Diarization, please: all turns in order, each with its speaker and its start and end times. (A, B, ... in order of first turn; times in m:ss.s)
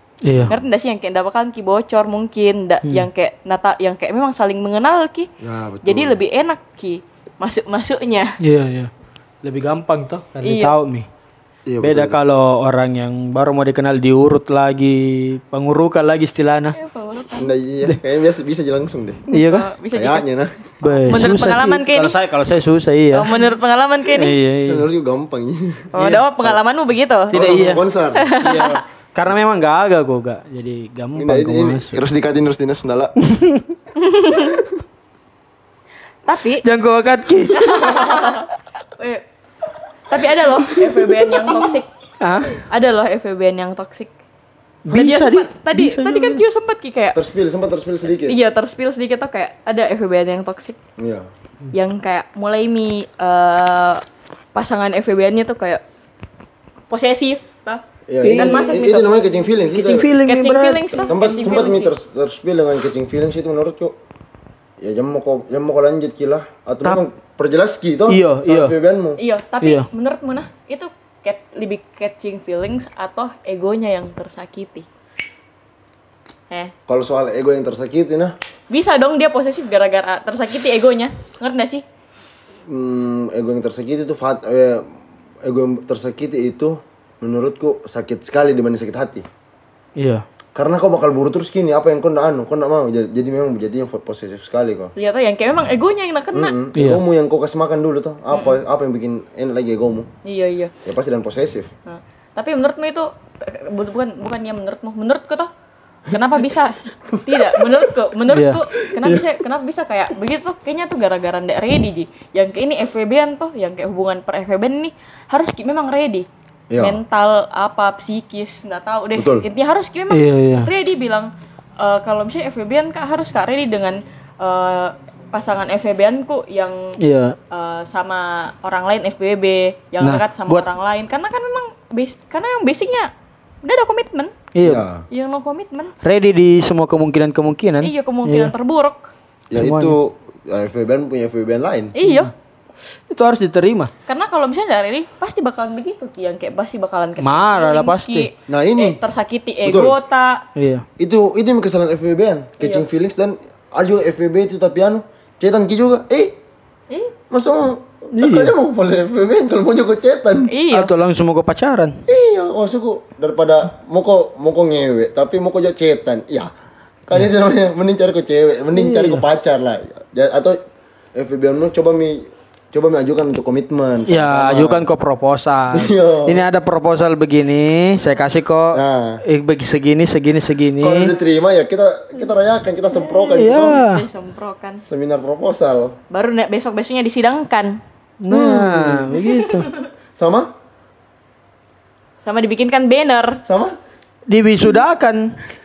0:00.2-0:00.5 A
0:00.5-0:05.3 B
0:05.4-0:06.2 C
0:05.8-0:08.4 B
0:08.4-0:08.9 A
0:09.4-0:11.1 A
0:10.4-0:10.8 B
0:11.7-0:12.2 C
0:11.8-0:16.8 A
0:16.7-0:17.5 B
0:17.4-0:19.2 C
0:19.3-0:20.3 B
0:19.3-0:19.7 A
0:19.9-0:20.7 C
0:20.8-0:23.4 A
0:20.8-0:22.2 B
0:23.1-0:24.4 B
0:24.1-0:24.9 A
0:24.6-0:26.5 C
0:25.9-0:27.4 B
0:26.0-0:26.2 A
0:27.3-0:28.3 C
0:27.3-0:27.8 A
0:28.2-0:28.8 B
0:28.4-0:32.0 A
0:31.2-0:33.1 C
0:33.2-0:33.6 A
0:34.0-0:34.6 B
0:36.3-0:36.6 B
0:36.6-0:37.8 A
0:37.5-0:38.4 B
0:39.0-0:39.2 B
0:40.1-0:41.9 B
0:42.2-0:42.5 A
0:42.6-0:44.1 B
0:44.8-0:46.4 A
0:44.9-0:47.2 B
0:47.2-0:48.4 C
0:48.3-0:50.8 B
0:51.0-0:51.3 C
0:51.7-0:54.0 B
0:54.6-0:55.8 B
0:56.9-0:59.4 B
0:58.1-1:00.1 C
0:58.2-0:58.8 A
0:59.6-1:01.1 A
1:00.2-1:01.9 B
1:01.1-1:04.0 C
1:04.8-1:09.2 C
1:08.1-1:08.7 A
1:09.2-1:14.9 B
1:16.9-1:18.4 C
1:18.7-1:21.8 B
1:22.7-1:24.9 C
1:25.4-1:29.2 C
1:30.0-1:30.2 A
1:30.6-1:34.9 C
1:35.0-1:36.6 B
1:36.3-1:40.1 C
1:36.8-1:37.0 A
1:38.3-1:38.6 B
1:40.2-1:40.7 B
1:40.8-1:41.7 C
1:41.9-1:45.5 B
1:46.1-2:07.0 B
1:47.1-1:47.9 C
1:48.3-1:48.6 A
1:48.9-1:49.3 C
1:56.7-1:57.0 C
1:59.2-1:59.5 C
2:00.1-2:00.7 A
2:07.0-2:07.4 A
2:07.5-2:13.1 B
2:10.0-2:10.6 A
2:13.6-2:14.3 B
2:14.6-2:14.8 A
2:14.6-2:15.0 C
2:15.1-2:15.9 B
2:16.0-2:18.5 A
2:17.8-2:19.1 B
2:19.5-2:21.9 C
2:19.6-2:20.0 A
2:22.0-2:22.3 B
2:22.0-2:22.3 A
2:23.1-2:23.9 A
2:24.1-2:30.4 B
2:27.2-2:28.3 A
2:28.5-2:29.0 C
2:29.6-2:30.0 C
2:30.6-2:30.8 A
2:31.0-2:36.4 C
2:32.6-2:32.9 B
2:37.3-2:40.5 C
2:38.2-2:38.5 A
2:40.5-2:40.9 B
2:40.7-2:42.0 A
2:42.1-2:46.5 C
2:47.1-2:50.6 C
2:48.7-2:49.2 A
2:51.1-2:54.9 C
2:54.1-3:01.1 A
2:55.7-2:56.5 C
2:58.7-2:59.2 C
3:00.8-3:03.8 C
3:02.9-3:04.8 B
3:03.3-3:04.0 A
3:04.8-3:06.0 C
3:06.1-3:07.8 B
3:08.2-3:09.7 A
3:08.3-3:09.1 C
3:09.2-3:09.9 B
3:10.2-3:10.5 C
3:12.2-3:13.4 B
3:13.4-3:13.8 C
3:14.3-3:15.4 A